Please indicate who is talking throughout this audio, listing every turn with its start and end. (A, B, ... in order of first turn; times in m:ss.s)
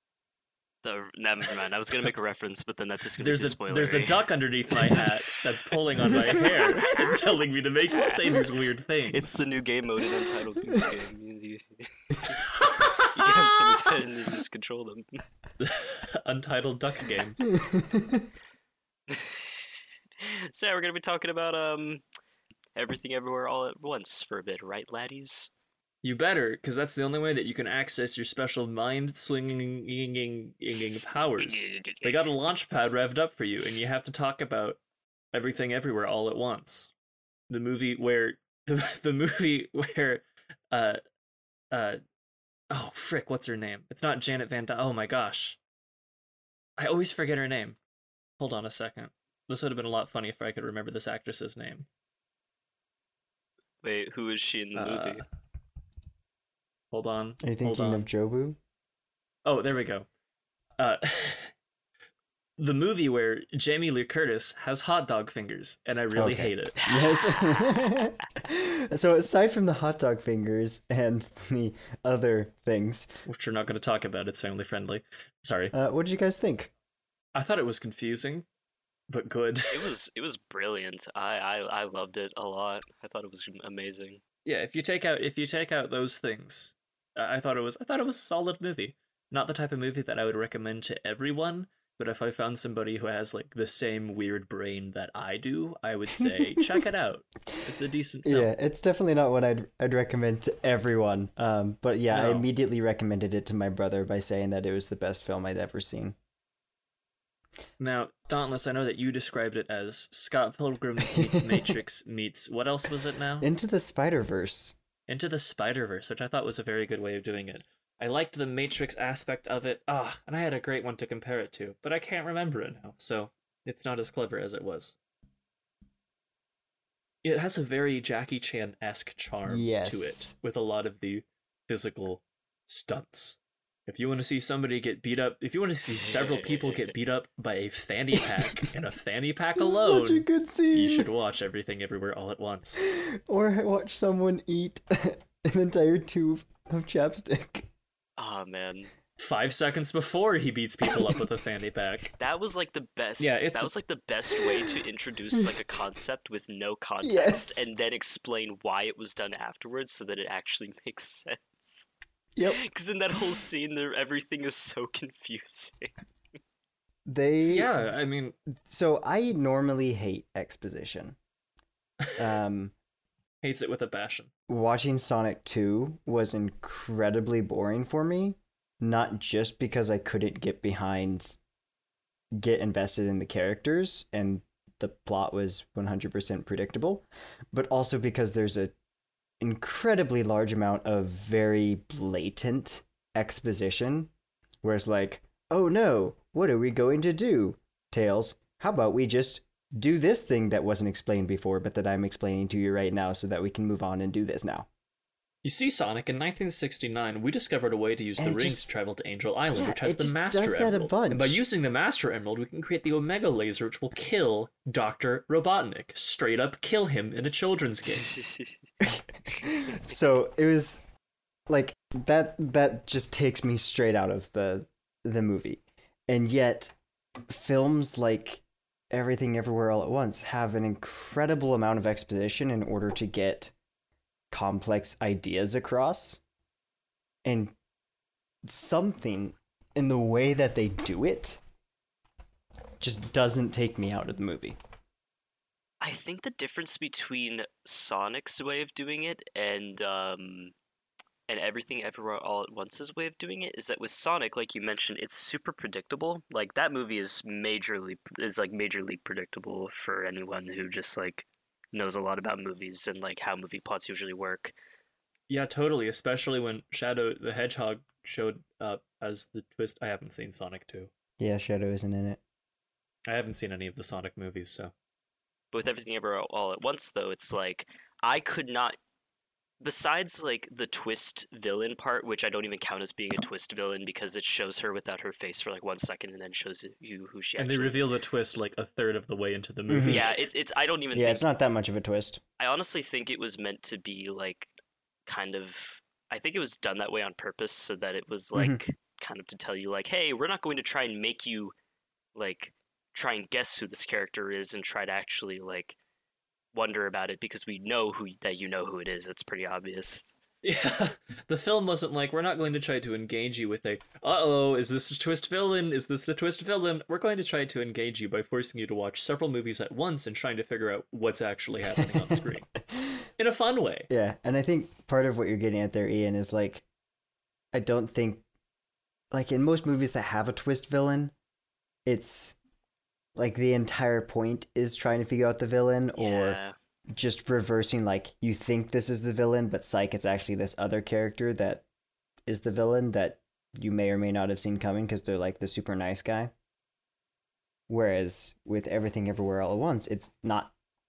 0:00.8-0:06.5 A
0:03.2-0:09.4 B
0:07.9-0:08.4 A
0:09.1-0:12.4 A
0:13.0-0:15.1 A
0:15.6-0:17.4 B
0:17.5-0:18.3 C
0:19.1-0:19.6 A
0:20.2-0:22.0 A
0:22.8-0:25.5 A
0:26.0-0:34.8 B
0:31.4-0:32.3 A
0:35.3-0:36.9 B
0:37.5-0:41.0 B
0:41.7-0:42.0 B
0:42.7-0:45.6 B
0:46.8-0:47.8 B
0:48.4-0:51.9 B
0:53.8-0:55.2 A
0:54.8-0:55.2 B
0:56.9-0:58.0 B
0:57.4-0:58.6 C
0:59.4-1:00.1 B
1:00.8-1:01.5 B
1:02.6-1:06.8 B
1:06.1-1:13.1 C
1:06.8-1:07.2 A
1:13.2-1:15.7 B
1:15.7-1:16.7 C
1:17.3-1:18.4 B
1:19.1-1:19.9 B
1:19.7-1:24.2 A
1:24.4-1:38.5 B
1:36.2-1:36.8 C
1:38.2-1:46.1 C
1:42.1-1:42.5 B
1:47.8-1:53.4 B
1:51.1-1:51.7 C
1:53.4-1:54.8 C
1:55.1-2:05.0 B
2:07.2-2:22.9 B
2:09.5-2:10.3 C
2:15.9-2:16.9 A
2:19.6-2:21.1 C
2:22.8-2:27.7 C
2:28.2-2:28.9 A
2:29.2-2:32.1 B
2:30.9-2:31.2 C
2:32.2-2:41.9 A
2:33.2-2:33.7 B
2:37.0-2:37.7 C
2:42.3-2:42.6 C
2:42.4-2:45.9 A
2:47.0-2:47.7 C
2:47.4-2:48.4 B
2:48.7-2:51.2 C
2:52.2-2:52.7 C
2:53.4-2:54.3 B
2:54.5-3:01.4 C
3:02.3-3:08.7 C
3:09.4-3:14.1 C
3:14.6-3:24.7 C
3:25.4-3:38.1 B
3:28.2-3:28.7 C
3:29.5-3:31.4 C
3:38.0-3:38.5 A
3:38.8-3:40.8 C
3:41.5-3:46.8 C
3:47.3-3:53.5 C
3:54.3-3:56.2 C
3:57.2-3:57.5 C
3:58.4-4:01.4 C
4:02.8-4:04.6 C
4:05.8-4:10.5 A
4:11.3-4:24.5 A
4:25.3-4:30.9 B
4:31.2-4:32.2 C
4:33.1-4:34.7 B
4:35.5-4:38.8 A
4:39.6-4:47.9 A
4:47.4-4:50.2 B
4:49.7-4:50.1 C
4:49.9-4:51.2 A
4:50.9-4:52.2 C
4:52.4-4:54.5 A
4:55.0-5:01.5 A
5:02.1-5:05.8 A
5:06.5-5:10.2 A
5:10.4-5:22.5 B
5:21.8-5:23.0 C
5:23.2-5:23.9 B
5:23.9-5:26.6 C
5:27.5-5:28.2 C
5:29.1-5:31.1 C
5:31.8-5:32.4 C
5:33.2-5:36.4 C
5:36.0-5:36.5 A
5:36.9-5:41.6 C
5:42.3-5:46.3 C
5:47.7-5:50.5 C